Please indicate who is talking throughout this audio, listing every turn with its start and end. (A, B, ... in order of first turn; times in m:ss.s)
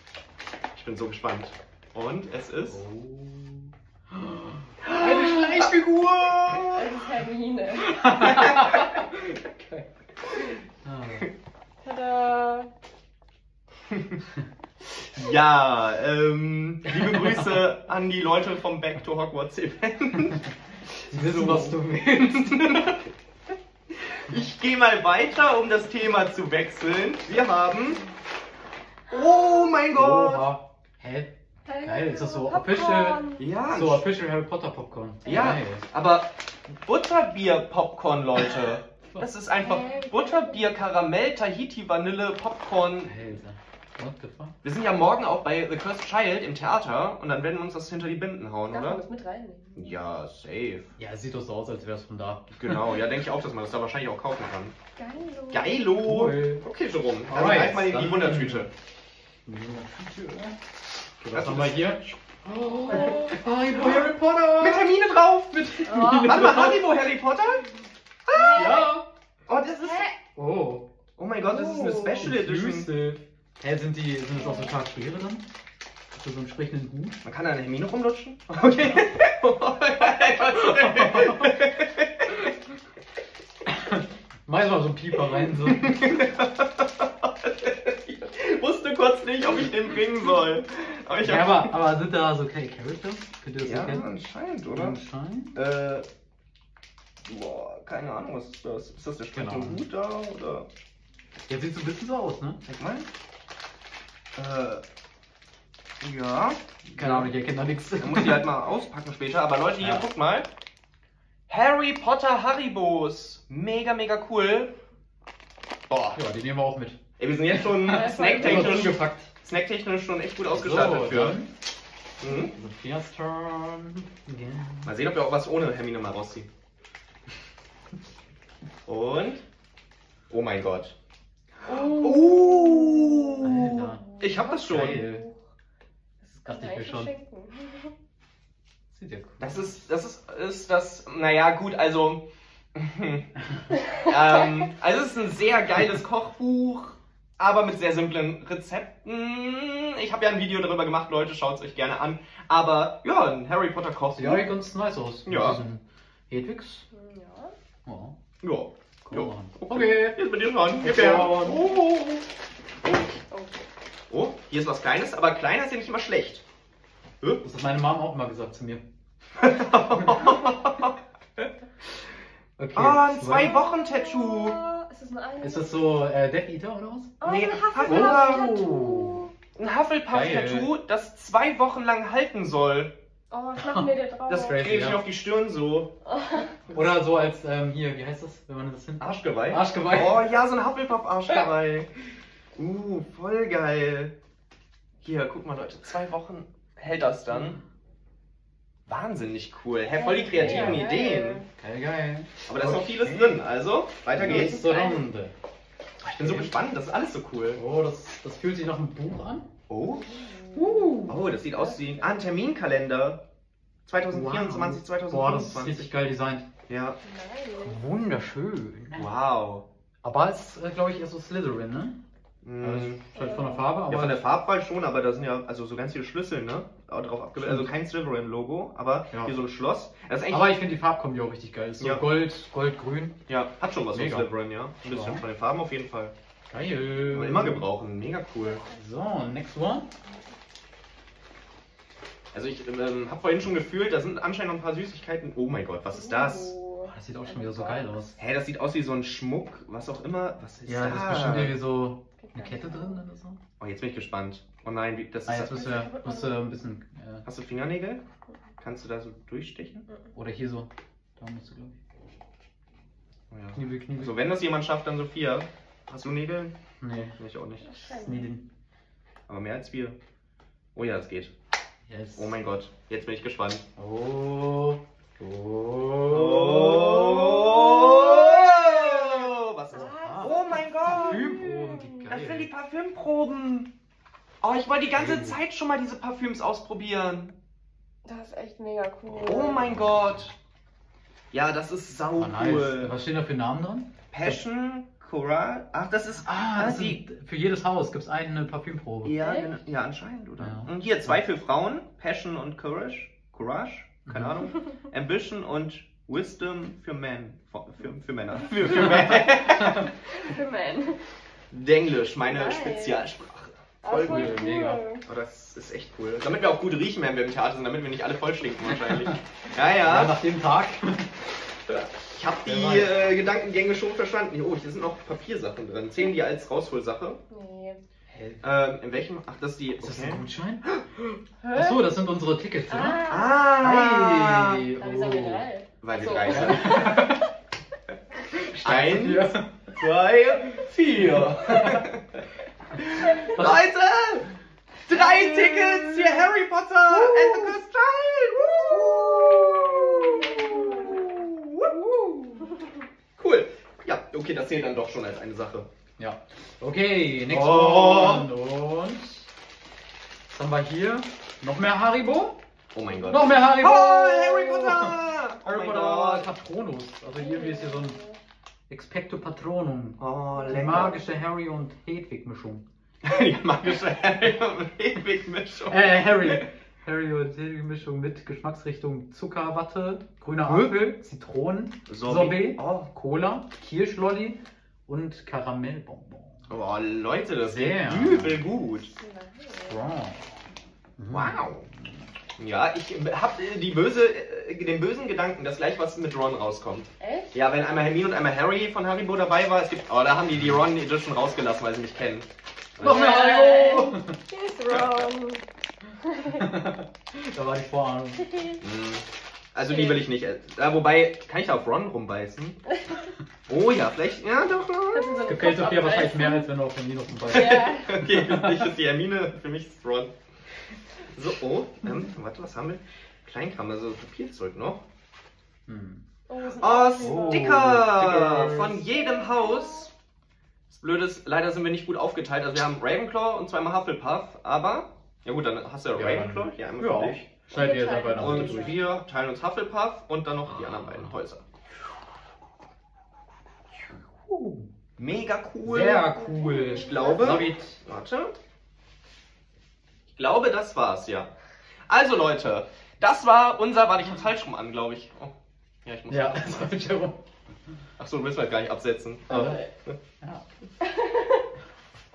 0:00.7-0:02.8 A
0:02.7-0:06.5 B
0:04.8-0:06.9 A
0:06.7-0:08.1 C
0:07.8-0:09.8 B
0:08.0-0:09.4 A
0:10.8-0:11.2 B
0:11.8-0:12.7 C
0:13.9-0:14.2 A
0:14.9-0:23.1 A
0:21.1-0:22.9 B
0:23.9-0:28.0 A
0:29.1-0:30.5 A
0:29.9-0:31.3 B
0:31.6-0:33.4 C
0:31.8-0:35.8 B
0:33.4-0:34.1 A
0:35.2-0:35.6 C
0:35.2-0:36.3 A
0:36.8-0:43.4 A
0:39.6-0:40.7 C
0:43.0-0:44.5 B
0:44.6-0:49.0 A
0:48.7-0:50.0 C
0:49.8-0:50.9 A
0:51.0-0:53.0 B
0:52.5-0:54.7 A
0:55.0-0:55.9 C
0:55.5-0:58.7 A
0:56.0-0:56.6 B
0:57.3-0:58.7 B
0:59.4-1:00.6 B
1:01.2-1:05.0 B
1:01.3-1:02.2 A
1:02.9-1:03.4 C
1:02.9-1:03.3 A
1:03.8-1:07.7 A
1:05.7-1:06.9 B
1:05.8-1:06.6 C
1:08.3-1:08.8 A
1:08.3-1:08.8 C
1:08.5-1:09.0 B
1:09.5-1:10.1 A
1:09.9-1:10.1 C
1:10.3-1:10.8 B
1:11.2-1:12.9 A
1:11.5-1:15.4 B
1:14.3-1:14.8 C
1:16.1-1:17.2 B
1:17.2-1:22.5 A
1:20.5-1:21.5 B
1:23.6-1:26.1 B
1:25.3-1:31.7 A
1:31.2-1:34.1 B
1:33.6-1:35.0 A
1:34.7-1:35.6 B
1:35.5-1:36.0 A
1:37.2-1:40.7 A
1:39.3-1:39.8 B
1:41.5-1:42.6 B
1:42.6-1:43.1 A
1:44.4-1:44.8 A
1:46.0-1:47.3 A
1:46.9-1:48.5 B
1:48.0-1:50.5 A
1:49.8-1:50.1 B
1:51.5-1:54.7 A
1:55.9-1:56.2 A
1:56.1-1:57.0 B
1:57.2-2:01.4 A
1:57.5-1:59.3 B
1:57.8-1:58.9 C
2:00.5-2:01.5 B
2:02.2-2:02.5 A
2:02.4-2:04.9 B
2:04.8-2:06.5 A
2:08.8-2:09.4 A
2:10.3-2:11.0 A
2:11.6-2:15.0 A
2:11.6-2:15.3 C
2:13.4-2:14.1 B
2:14.6-2:15.2 B
2:16.2-2:17.9 C
2:16.4-2:17.1 B
2:18.9-2:19.8 B
2:19.4-2:22.2 A
2:22.8-2:23.3 A
2:23.9-2:34.6 A
2:34.2-2:36.8 B
2:35.2-2:35.6 A
2:36.9-2:37.5 C
2:37.8-2:38.2 B
2:38.4-2:42.2 A
2:39.0-2:40.2 B
2:40.8-2:41.8 B
2:42.8-2:43.1 A
2:43.3-2:43.7 C
2:44.1-2:46.4 A
2:47.4-2:48.8 B
2:49.4-2:51.4 A
2:49.9-2:50.4 B
2:52.6-2:53.6 B
2:52.7-2:54.6 A
2:53.3-2:55.9 C
2:55.4-2:57.1 B
2:57.2-2:59.3 C
2:57.2-3:02.9 A
2:57.8-2:59.2 B
3:00.1-3:00.7 B
3:03.3-3:04.7 C
3:03.6-3:05.0 B
3:04.3-3:05.9 A
3:06.0-3:06.5 C
3:06.7-3:10.3 B
3:09.0-3:11.9 A
3:12.6-3:14.1 A
3:15.0-3:17.6 A
3:17.3-3:17.6 B
3:18.8-3:21.4 A
3:19.9-3:21.5 C
3:20.3-3:20.9 B
3:21.6-3:23.4 B
3:22.4-3:24.7 A
3:24.1-3:25.3 B
3:24.2-3:25.0 C
3:26.0-3:27.6 A
3:26.0-3:26.5 B
3:27.5-3:29.5 B
3:29.7-3:30.1 A
3:29.9-3:32.2 C
3:30.5-3:31.2 B
3:31.0-3:33.2 A
3:33.8-3:35.9 A
3:34.1-3:36.5 B
3:36.7-3:37.0 A
3:37.0-3:37.8 C
3:37.6-3:39.1 B
3:38.9-3:39.6 A
3:40.0-3:42.0 B
3:42.4-3:43.0 A
3:42.6-3:44.2 B
3:43.1-3:43.7 C
3:43.9-3:50.6 A
3:47.4-3:47.7 B
3:50.3-3:53.2 B
3:51.8-3:52.1 A
3:53.3-3:56.1 A
3:53.9-3:54.3 B
3:54.8-3:55.2 B
3:56.5-3:57.7 B
3:57.1-3:58.6 A
3:58.4-3:58.8 C
3:58.7-3:59.9 B
4:02.3-4:06.5 A
4:05.8-4:08.0 C
4:06.8-4:08.2 B
4:08.2-4:11.6 A
4:10.6-4:13.4 B
4:12.2-4:13.0 C
4:13.6-4:15.7 A
4:15.2-4:17.2 B
4:15.5-4:16.5 C
4:17.2-4:18.0 A
4:18.6-4:19.8 A
4:20.1-4:21.8 B
4:23.3-4:26.5 A
4:23.5-4:24.2 B
4:26.8-4:27.2 B
4:27.1-4:27.7 A
4:27.6-4:28.3 C
4:27.9-4:28.5 B
4:29.3-4:30.0 A
4:30.7-4:31.3 A
4:31.9-4:32.4 B
4:32.1-4:33.6 A
4:33.8-4:37.7 B
4:36.1-4:43.7 A
4:37.8-4:42.1 C
4:39.7-4:42.5 B
4:44.4-4:47.4 A
4:44.9-4:45.4 B
4:48.0-4:49.8 C
4:49.1-4:50.3 A
4:49.7-4:50.2 B
4:51.3-4:53.0 A
4:52.2-4:54.4 B
4:54.1-4:57.0 A
4:56.2-4:59.2 B
4:59.0-5:09.9 A
4:59.2-4:59.6 C
5:00.4-5:01.1 B
5:04.1-5:04.4 B
5:09.9-5:11.0 C
5:11.5-5:14.4 A
5:12.3-5:13.1 C
5:13.8-5:15.0 C
5:13.9-5:14.8 B
5:15.0-5:20.2 A
5:18.7-5:19.2 B
5:19.8-5:21.1 B
5:21.7-5:27.2 A
5:22.4-5:23.0 B
5:27.3-5:27.8 C
5:28.1-5:28.4 B
5:28.4-5:31.1 A
5:29.8-5:30.6 B
5:31.4-5:31.8 C
5:31.5-5:35.5 B
5:32.7-5:33.5 C
5:33.1-5:34.7 A
5:34.7-5:37.3 C
5:35.8-5:36.9 A
5:36.2-5:37.3 B
5:38.3-5:39.7 B
5:38.6-5:44.3 A
5:40.5-5:41.9 B
5:43.1-5:43.6 B
5:44.9-5:51.7 A
5:47.3-5:47.5 C
5:48.7-5:51.1 C
5:51.6-5:52.7 C
5:53.2-5:55.7 A
5:56.0-5:59.3 B
5:57.3-5:58.3 A
6:00.3-6:02.4 B
6:02.7-6:06.3 A
6:03.1-6:08.0 B
6:07.2-6:08.2 C
6:08.7-6:12.6 B
6:10.0-6:11.0 A
6:10.5-6:11.0 C
6:13.0-6:16.5 A
6:15.7-6:26.5 B
6:20.4-6:20.8 A
6:21.9-6:22.9 A
6:26.5-6:28.9 A
6:27.4-6:28.4 B
6:29.0-6:29.8 C
6:29.7-6:32.1 B
6:31.1-6:31.6 A
6:32.4-6:43.2 A
6:37.0-6:37.3 C
6:42.8-6:44.2 B
6:42.8-6:45.4 C
6:46.0-6:46.4 C
6:46.3-6:48.3 B
6:48.3-6:48.6 C
6:48.6-6:52.6 A
6:49.6-6:50.0 C
6:53.5-6:55.3 A
6:54.9-6:56.5 C
6:55.2-6:58.7 B
6:57.3-6:58.0 C
6:57.3-7:00.1 A
7:01.1-7:04.8 A
7:05.7-7:06.0 B
7:06.3-7:07.6 C
7:06.6-7:09.9 A
7:07.0-7:08.8 B
7:08.8-7:09.9 C
7:10.7-7:17.3 A
7:15.9-7:18.8 B
7:17.5-7:18.8 C
7:18.2-7:21.4 A
7:20.6-7:21.1 B
7:23.8-7:24.7 B
7:25.0-7:26.1 A
7:25.6-7:27.8 B
7:26.1-7:27.5 C
7:26.7-7:28.4 A
7:30.1-7:31.3 A
7:31.9-7:35.3 A
7:35.8-7:36.8 A
7:36.1-7:37.2 B
7:38.0-7:40.0 A
7:39.3-7:39.6 B
7:40.8-7:41.4 C